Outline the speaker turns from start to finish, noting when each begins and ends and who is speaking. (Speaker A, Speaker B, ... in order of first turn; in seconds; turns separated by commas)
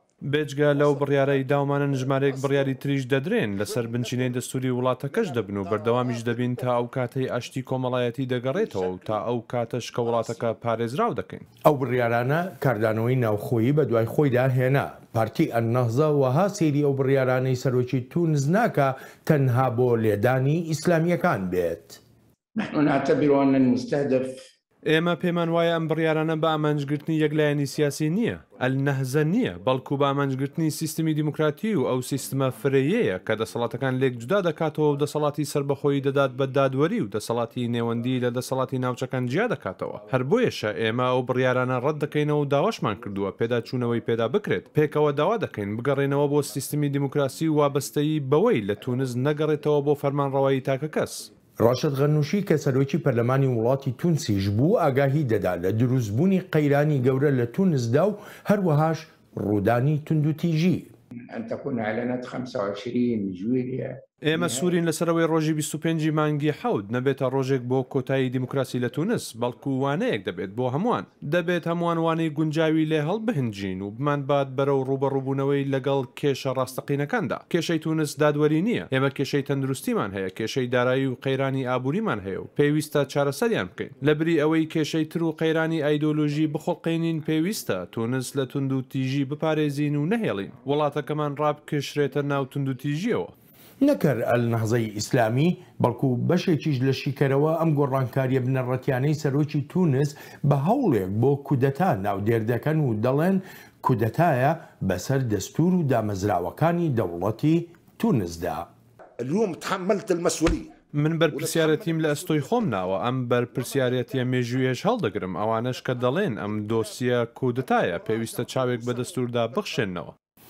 Speaker A: 0.2-11.5, Speaker B: 11.6-22.0, Speaker C: 22.6-24.3, Speaker A: 24.9-51.3, Speaker B: 51.6-60.9, Speaker C: 61.3-64.7, Speaker A: 64.2-93.3, Speaker B: 93.8-108.7, Speaker D: 109.2-110.7, Speaker A: 110.9-120.1, Speaker D: 111.3-112.0